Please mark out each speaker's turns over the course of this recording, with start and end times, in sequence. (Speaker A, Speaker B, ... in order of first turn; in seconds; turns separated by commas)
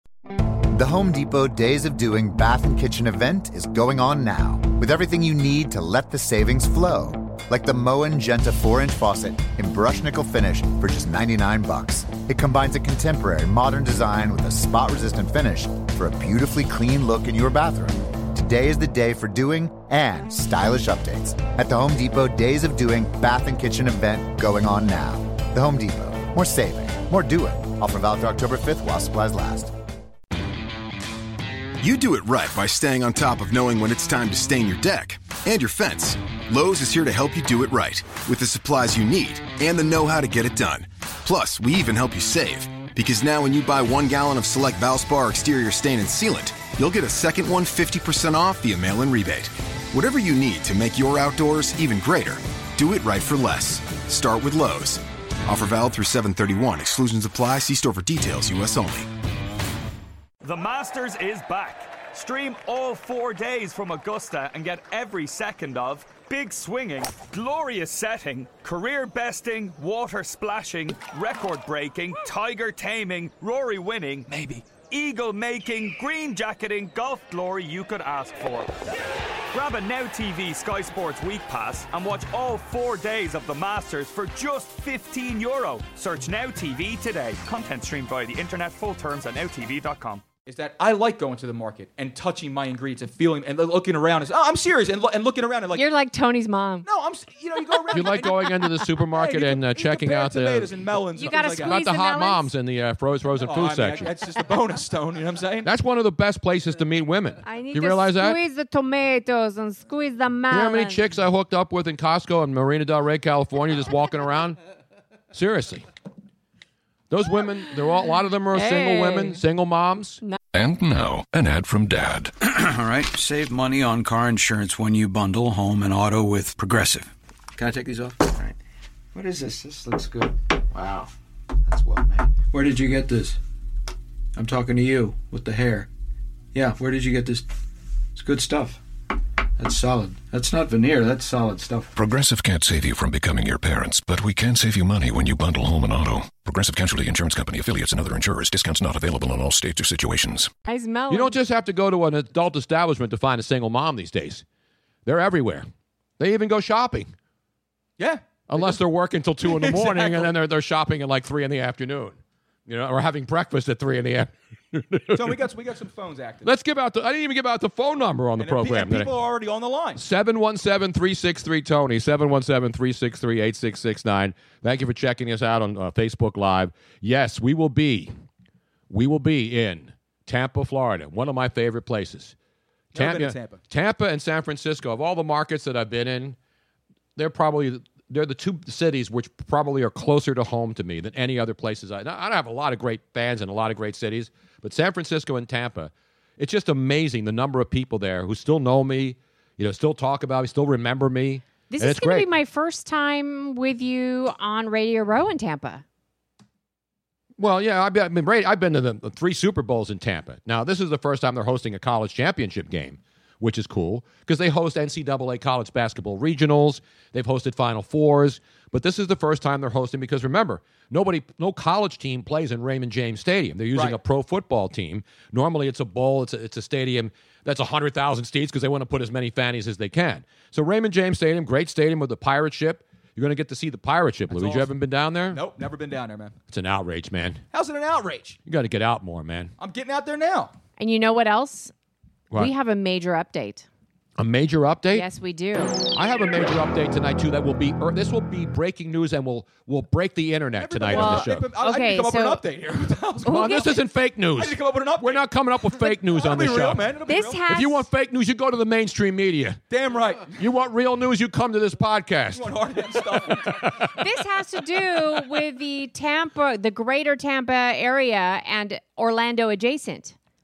Speaker A: 0.7-29.7, Speaker B: 31.8-59.1, Speaker C: 60.4-78.8, Speaker D: 74.3-74.6, Speaker C: 79.5-90.2, Speaker D: 90.5-95.9, Speaker E: 95.7-96.8, Speaker D: 96.8-101.8, Speaker F: 97.9-104.1, Speaker E: 101.2-102.5, Speaker D: 103.4-105.7, Speaker F: 105.6-108.4, Speaker E: 107.4-111.0, Speaker F: 110.5-114.6, Speaker F: 115.3-115.9, Speaker F: 117.1-120.2, Speaker E: 118.5-119.4, Speaker G: 120.5-122.3, Speaker H: 122.4-128.6, Speaker H: 129.1-131.1, Speaker H: 131.6-133.4, Speaker H: 134.3-135.9, Speaker H: 136.5-137.5, Speaker H: 138.1-138.8, Speaker H: 139.6-141.9, Speaker G: 141.9-150.5, Speaker E: 150.7-151.3, Speaker F: 151.1-154.4, Speaker F: 155.1-155.7, Speaker F: 156.2-157.1, Speaker D: 158.0-158.8, Speaker F: 158.5-165.4, Speaker D: 159.4-160.3, Speaker D: 165.1-166.5, Speaker F: 166.4-169.1, Speaker D: 168.4-170.0, Speaker F: 169.9-178.1, Speaker F: 178.9-182.3, Speaker D: 182.9-183.6, Speaker F: 182.9-186.3, Speaker F: 187.2-202.3, Speaker E: 201.7-205.8, Speaker F: 207.4-235.4, Speaker D: 234.3-234.7, Speaker D: 235.3-236.3, Speaker F: 236.5-237.4, Speaker D: 237.5-238.4, Speaker F: 238.5-239.5, Speaker D: 239.6-240.5, Speaker E: 240.8-241.7, Speaker E: 242.3-243.7, Speaker F: 244.2-245.1, Speaker E: 244.9-245.8, Speaker F: 245.9-251.5, Speaker D: 250.6-253.6, Speaker E: 250.9-252.4, Speaker E: 253.2-253.7, Speaker F: 253.2-256.9, Speaker D: 254.3-255.2, Speaker D: 255.8-257.4, Speaker E: 257.1-257.9, Speaker F: 257.5-259.6, Speaker D: 259.7-260.4, Speaker F: 260.3-262.5, Speaker D: 262.3-263.7, Speaker F: 263.1-264.2, Speaker E: 263.9-270.1